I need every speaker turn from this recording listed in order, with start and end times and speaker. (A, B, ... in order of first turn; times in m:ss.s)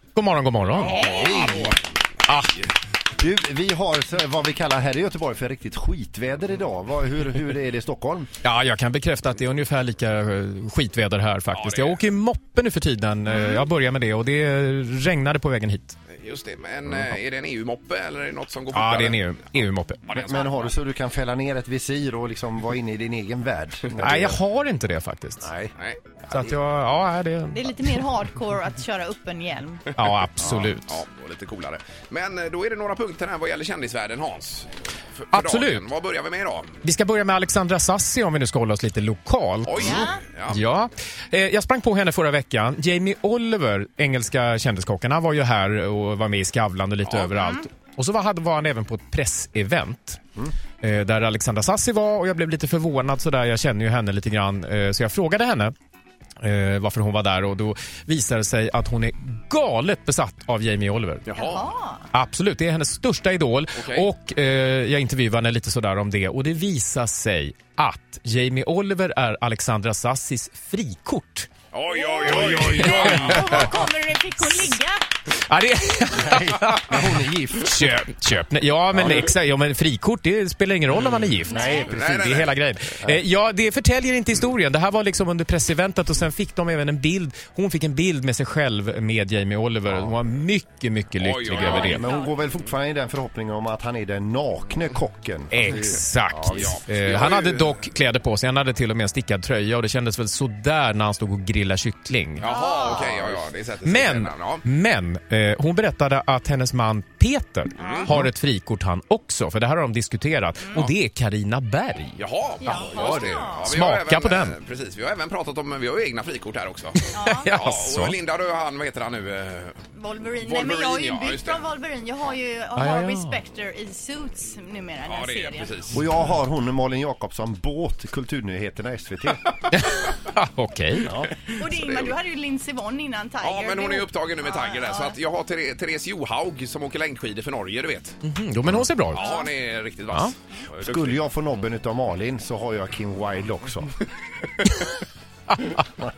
0:00.2-0:01.0 A
0:00.8-0:01.8 B
0:00.8-0:01.7 C
0:02.3-0:02.5 A
0:03.2-0:08.3 D
0:08.4-0:16.0 A
0:11.5-0:12.0 B
0:13.3-0:13.6 C
0:16.1-0:19.2 B
0:18.7-0:20.2 A
0:20.1-0:20.7 B
0:20.2-0:24.4 D
0:24.0-0:25.5 A
0:25.4-0:25.7 D
0:25.8-0:26.6 B
0:26.3-0:27.8 A
0:27.5-0:29.9 C
0:29.9-0:31.0 A
0:30.4-0:36.8 B
0:35.3-0:35.9 A
0:36.8-0:55.7 A
0:39.6-0:40.6 B
0:39.8-0:40.2 C
0:47.0-0:47.3 B
0:56.4-1:01.4 A
1:01.3-1:01.7 B
1:01.4-1:02.0 C
1:02.1-1:11.5 A
1:03.8-1:04.1 B
1:11.7-1:13.7 B
1:11.9-1:15.0 C
1:12.3-1:13.6 A
1:14.4-1:14.7 A
1:15.3-1:32.0 A
1:16.2-1:17.8 D
1:21.5-1:21.9 C
1:21.9-1:22.6 B
1:31.2-1:32.0 B
1:31.6-1:32.3 C
1:31.8-1:36.7 D
1:35.5-1:42.5 A
1:36.5-1:37.8 B
1:42.4-1:44.7 B
1:42.5-1:43.1 C
1:43.8-1:52.2 A
1:47.8-1:48.1 C
1:47.8-1:48.2 B
1:52.2-1:59.8 B
1:52.6-1:53.7 C
1:52.9-1:54.6 A
1:57.0-1:58.2 A
1:57.1-1:57.6 C
2:00.0-2:05.8 C
2:00.4-2:01.6 B
2:02.8-2:03.4 A
2:05.1-2:06.0 B
2:05.9-2:09.5 D
2:09.7-2:11.2 A
2:11.6-2:15.2 C
2:11.6-2:12.1 B
2:13.4-2:18.2 B
2:18.2-2:19.3 A
2:19.1-2:21.2 B
2:19.2-2:19.5 C
2:20.8-2:23.9 D
2:25.5-2:25.8 A